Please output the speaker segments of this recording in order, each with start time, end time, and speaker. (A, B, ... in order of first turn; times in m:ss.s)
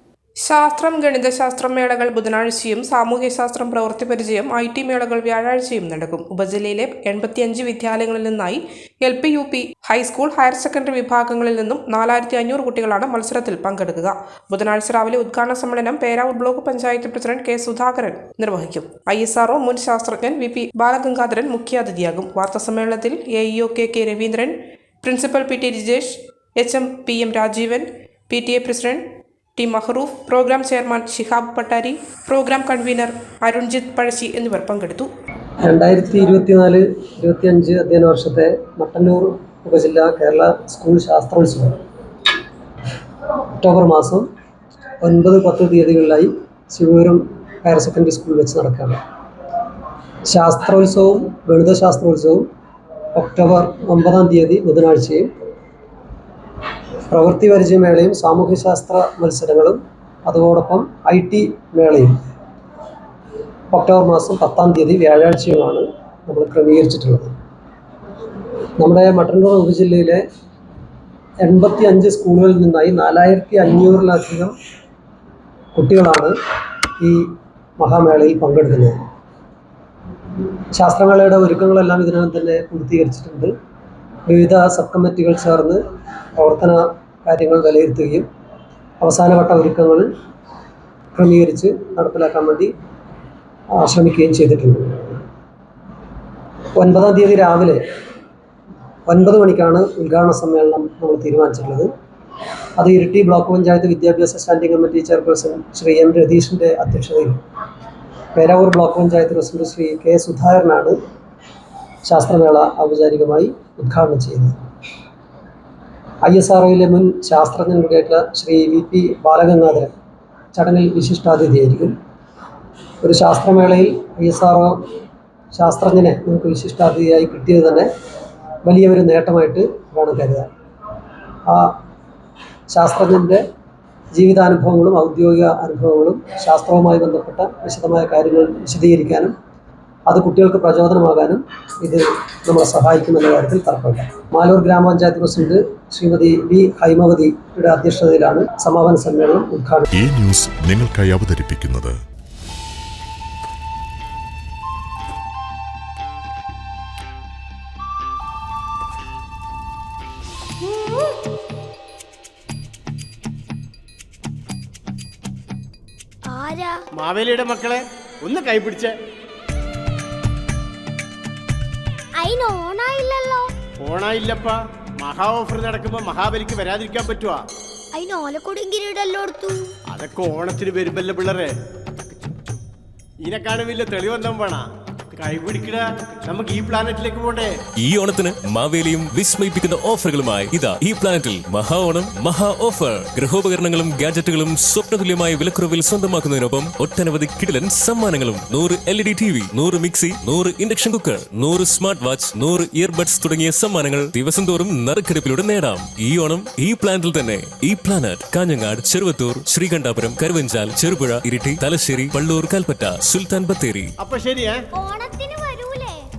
0:00.4-0:29.0 A
0:29.6-0:35.1 A
0:35.6-0:41.8 B
0:43.6-0:44.3 B
0:45.0-0:49.0 B
0:50.2-0:52.5 B
0:53.1-0:55.3 B
0:57.1-1:02.1 B
1:03.7-1:07.3 B
1:08.8-1:10.2 B
1:11.4-1:14.5 B
1:15.7-1:16.4 B
1:17.0-1:19.0 B
1:20.7-1:23.5 B
1:24.3-1:25.8 B
1:26.4-1:28.3 B
1:29.0-1:30.1 B
1:31.1-1:32.7 B
1:33.8-1:35.2 B
1:36.8-1:37.8 B
1:39.1-1:41.9 B
1:42.8-1:47.4 B
1:48.3-1:51.0 B
1:52.0-1:54.6 B
1:56.2-1:59.9 B
2:00.5-2:02.0 B
2:03.0-2:04.8 B
2:05.5-2:07.9 B
2:08.6-2:10.5 B
2:11.5-2:11.8 B
2:12.7-2:13.4 B
2:14.1-2:19.3 B
2:20.1-2:29.9 B
2:29.9-2:32.0 C
2:40.6-2:41.1 D
2:46.2-2:46.8 D
2:47.0-2:48.9 E
2:52.2-2:53.5 D
2:53.8-2:57.4 E
2:57.9-2:59.7 D
3:00.0-3:01.5 E
3:03.2-3:04.6 E
3:05.2-3:07.5 E
3:07.8-3:33.9 F
3:34.0-3:34.5 E
3:34.7-3:36.0 D